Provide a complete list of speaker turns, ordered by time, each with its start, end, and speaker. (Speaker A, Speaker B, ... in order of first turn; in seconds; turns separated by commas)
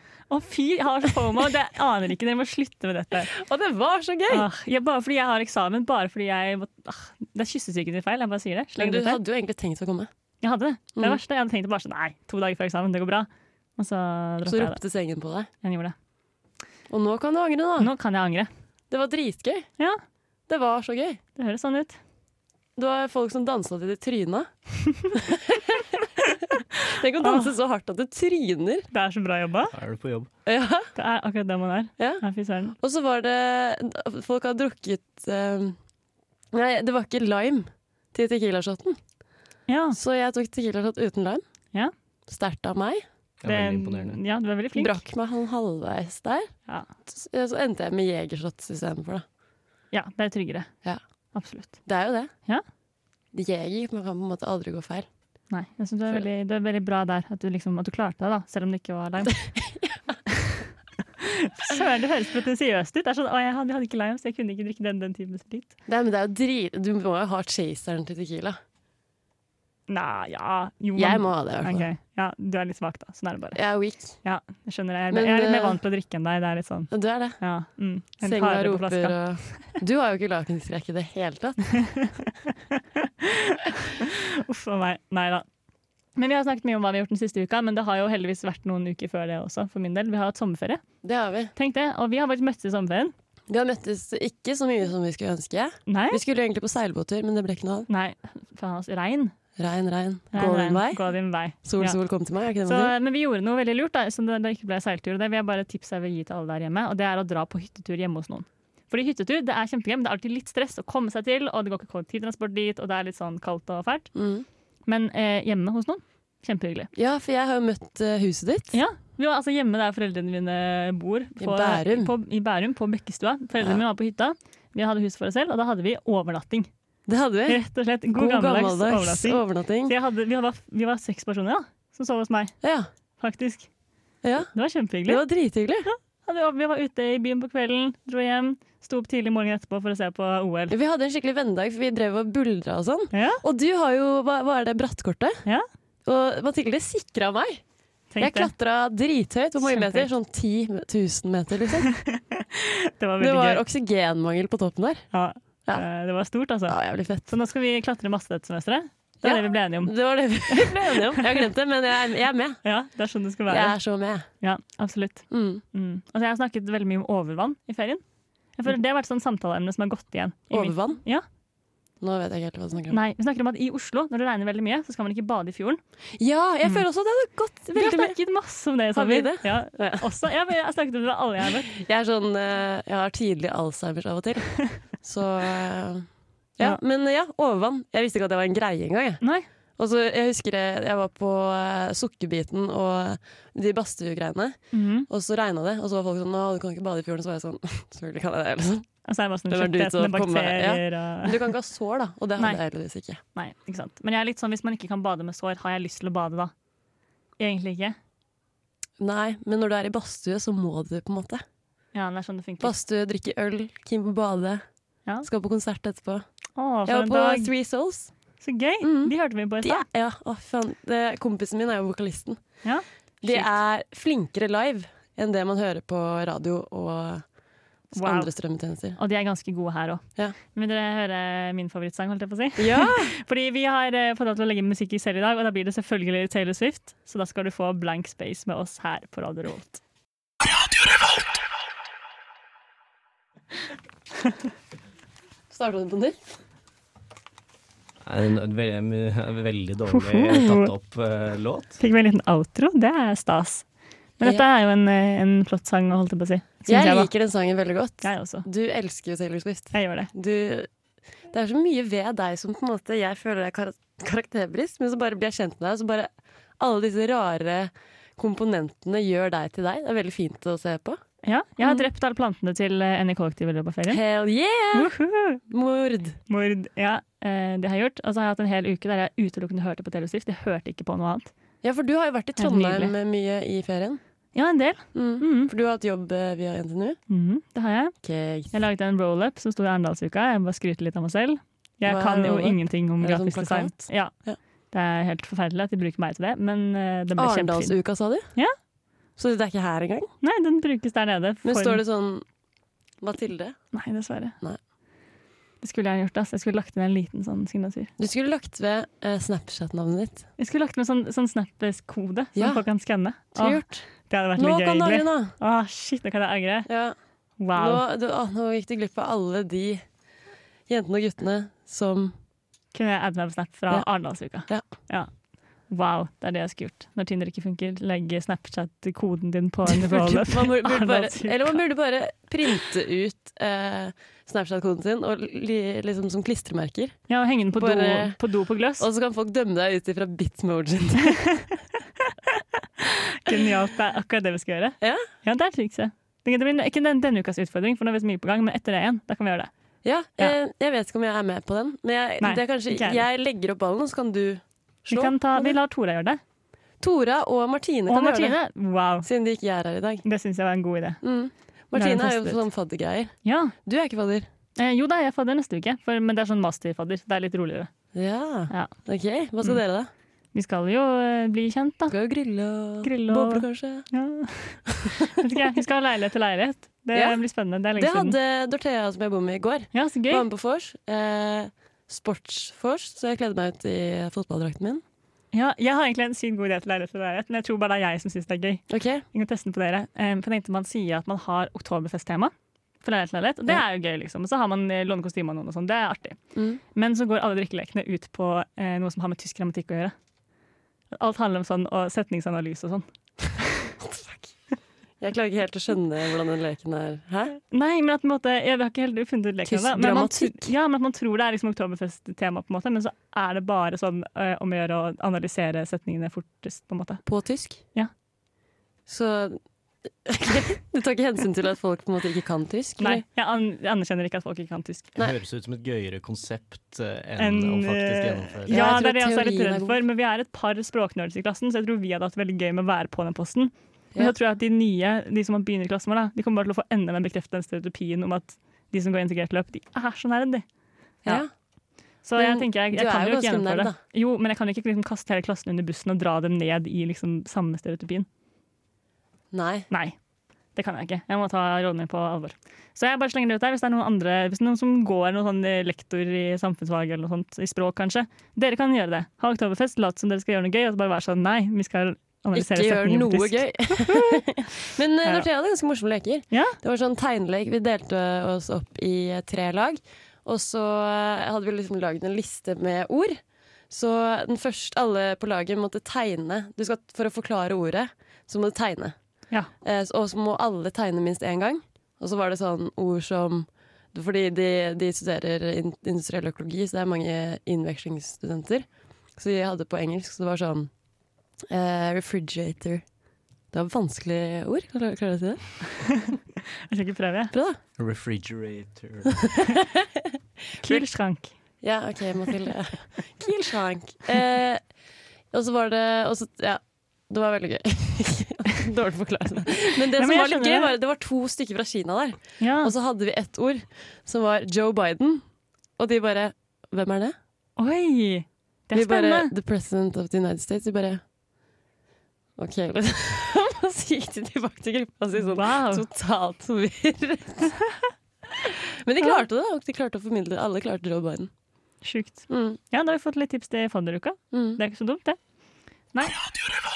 Speaker A: 0.3-3.3, Speaker B: 3.3-4.5, Speaker A: 4.3-9.2, Speaker B: 8.8-10.1, Speaker A: 10.4-14.8, Speaker B: 14.4-15.5, Speaker A: 15.6-15.9, Speaker B: 16.9-17.9, Speaker A: 17.8-18.5, Speaker B: 18.9-19.7, Speaker B: 20.5-21.2, Speaker A: 21.4-22.0, Speaker B: 22.8-24.5, Speaker B: 25.1-26.1, Speaker B: 26.9-28.9, Speaker A: 27.2-27.5, Speaker A: 28.9-29.7, Speaker C: 29.7-30.3, Speaker B: 30.5-30.9, Speaker A: 30.9-32.8, Speaker B: 32.0-32.2, Speaker B: 32.8-35.8, Speaker B: 36.5-39.0, Speaker A: 39.7-40.0, Speaker B: 39.9-41.4, Speaker B: 42.3-43.0, Speaker C: 43.4-44.2, Speaker A: 43.4-45.0, Speaker B: 44.7-46.5, Speaker B: 47.1-49.2, Speaker A: 49.9-50.7, Speaker A: 51.3-51.8, Speaker B: 51.9-52.3, Speaker B: 53.3-55.1, Speaker A: 55.5-59.4, Speaker B: 59.3-60.1, Speaker A: 61.2-65.7, Speaker B: 65.9-68.6, Speaker A: 69.9-73.6, Speaker B: 71.0-71.9, Speaker B: 73.5-74.2, Speaker A: 74.2-79.7, Speaker B: 75.1-75.8, Speaker B: 76.9-77.4, Speaker B: 78.2-81.7, Speaker A: 82.7-85.5, Speaker A: 86.2-90.8, Speaker B: 91.0-91.5, Speaker A: 91.6-93.1, Speaker B: 93.5-97.9, Speaker A: 95.9-96.2, Speaker A: 97.9-99.3, Speaker B: 99.6-102.9, Speaker A: 100.3-102.0, Speaker A: 102.7-114.1, Speaker B: 114.1-114.5, Speaker A: 114.9-116.9, Speaker B: 116.9-118.7, Speaker A: 118.7-126.7, Speaker B: 121.4-122.1, Speaker B: 127.1-129.9, Speaker A: 127.5-132.6, Speaker B: 132.6-132.9, Speaker A: 133.2-133.7, Speaker B: 134.2-134.5, Speaker A: 134.5-135.2, Speaker B: 135.1-135.9, Speaker A: 135.9-140.8, Speaker B: 140.7-145.4, Speaker A: 143.1-143.4, Speaker B: 146.1-147.6, Speaker A: 148.1-148.5, Speaker B: 148.2-151.9, Speaker A: 149.6-150.1, Speaker A: 152.0-153.6, Speaker B: 153.2-155.1, Speaker A: 155.1-159.9, Speaker B: 156.7-157.3, Speaker B: 159.2-162.6, Speaker A: 160.5-161.3, Speaker A: 162.6-163.8, Speaker B: 163.5-164.3, Speaker A: 164.4-168.0, Speaker B: 165.3-165.6, Speaker A: 168.6-171.2, Speaker B: 170.5-171.0, Speaker B: 172.0-173.0, Speaker A: 172.9-175.8, Speaker B: 176.2-178.2, Speaker A: 177.7-181.7, Speaker B: 178.9-180.1, Speaker B: 181.7-186.1, Speaker B: 186.6-189.2, Speaker A: 189.2-189.5, Speaker B: 189.8-198.9, Speaker A: 194.7-195.1, Speaker A: 199.1-201.4, Speaker B: 199.5-203.2, Speaker A: 203.3-206.5, Speaker A: 207.4-208.0, Speaker B: 209.0-211.4, Speaker A: 211.9-212.8, Speaker B: 212.6-214.6, Speaker B: 215.2-216.2, Speaker A: 216.6-217.5, Speaker B: 216.9-218.1, Speaker A: 218.4-219.8, Speaker B: 218.8-222.4, Speaker A: 222.6-223.5, Speaker B: 223.2-227.3, Speaker A: 227.9-228.3, Speaker B: 227.9-229.0, Speaker A: 229.0-239.8, Speaker B: 232.6-233.1, Speaker B: 245.5-246.2, Speaker C: 248.0-251.8, Speaker A: 249.9-250.7, Speaker A: 251.8-253.7, Speaker A: 254.2-257.1, Speaker B: 256.7-260.7, Speaker A: 258.0-258.5, Speaker A: 259.7-260.1, Speaker B: 261.3-271.0, Speaker A: 271.2-274.0, Speaker B: 271.6-271.9, Speaker B: 273.9-274.9, Speaker A: 274.7-275.4, Speaker B: 275.5-276.2, Speaker A: 276.3-281.3, Speaker B: 281.6-284.0, Speaker A: 282.4-282.9, Speaker A: 284.4-285.5, Speaker B: 284.9-287.0, Speaker A: 287.1-287.9, Speaker B: 288.0-288.5, Speaker A: 288.5-294.1, Speaker B: 291.9-294.4, Speaker A: 294.7-297.8, Speaker B: 297.2-298.3, Speaker B: 299.2-300.1, Speaker A: 300.2-301.8, Speaker B: 301.4-302.2, Speaker B: 303.0-303.6, Speaker A: 303.7-304.4, Speaker A: 305.6-307.9, Speaker B: 308.0-310.2, Speaker A: 310.4-316.7, Speaker B: 312.4-312.6, Speaker B: 313.3-315.4, Speaker B: 316.7-316.9, Speaker A: 317.4-317.8, Speaker B: 317.5-319.8, Speaker B: 320.7-322.1, Speaker A: 322.7-325.1, Speaker B: 323.7-324.6, Speaker A: 325.7-331.6, Speaker B: 329.7-338.2, Speaker A: 337.1-338.9, Speaker B: 338.7-341.2, Speaker A: 342.8-349.5, Speaker B: 349.8-355.6, Speaker A: 352.2-353.1, Speaker A: 354.9-356.2, Speaker B: 356.8-358.4, Speaker A: 357.9-359.1, Speaker B: 359.0-360.0, Speaker A: 360.1-361.0, Speaker B: 361.0-364.3, Speaker A: 361.7-362.5, Speaker A: 363.2-363.5, Speaker A: 364.6-367.7, Speaker B: 367.9-369.9, Speaker A: 370.3-372.0, Speaker B: 371.9-373.9, Speaker A: 372.8-378.2, Speaker B: 376.9-377.2, Speaker B: 377.8-384.8, Speaker A: 379.7-380.3, Speaker A: 385.3-396.2, Speaker B: 388.7-389.0, Speaker B: 396.4-396.6, Speaker A: 396.7-399.9, Speaker A: 400.9-402.9, Speaker B: 403.8-404.3, Speaker B: 405.0-407.4, Speaker A: 407.5-417.0, Speaker B: 409.5-410.5, Speaker B: 417.1-417.6, Speaker B: 418.9-419.4, Speaker B: 420.1-423.0, Speaker A: 422.8-424.9, Speaker C: 425.0-428.8, Speaker A: 427.2-440.4, Speaker B: 428.5-429.8, Speaker A: 442.0-448.1, Speaker B: 442.2-443.8, Speaker B: 449.3-449.7, Speaker A: 449.7-450.0, Speaker A: 450.6-464.2, Speaker B: 462.3-479.0, Speaker A: 466.3-466.6, Speaker B: 479.6-490.7, Speaker B: 491.5-492.9, Speaker B: 493.5-495.5, Speaker A: 496.7-497.3, Speaker B: 497.3-497.6, Speaker C: 497.8-499.3, Speaker B: 499.3-500.1, Speaker B: 500.6-500.9, Speaker A: 500.6-501.4, Speaker B: 501.6-504.6, Speaker B: 505.3-515.2, Speaker A: 509.9-510.8, Speaker A: 512.4-512.7, Speaker B: 515.8-517.1, Speaker A: 517.6-519.3, Speaker B: 518.7-521.0, Speaker B: 522.4-527.5, Speaker A: 525.2-525.9, Speaker B: 528.4-531.3, Speaker A: 531.8-535.2, Speaker B: 532.3-532.6, Speaker B: 534.3-534.6, Speaker A: 535.9-536.2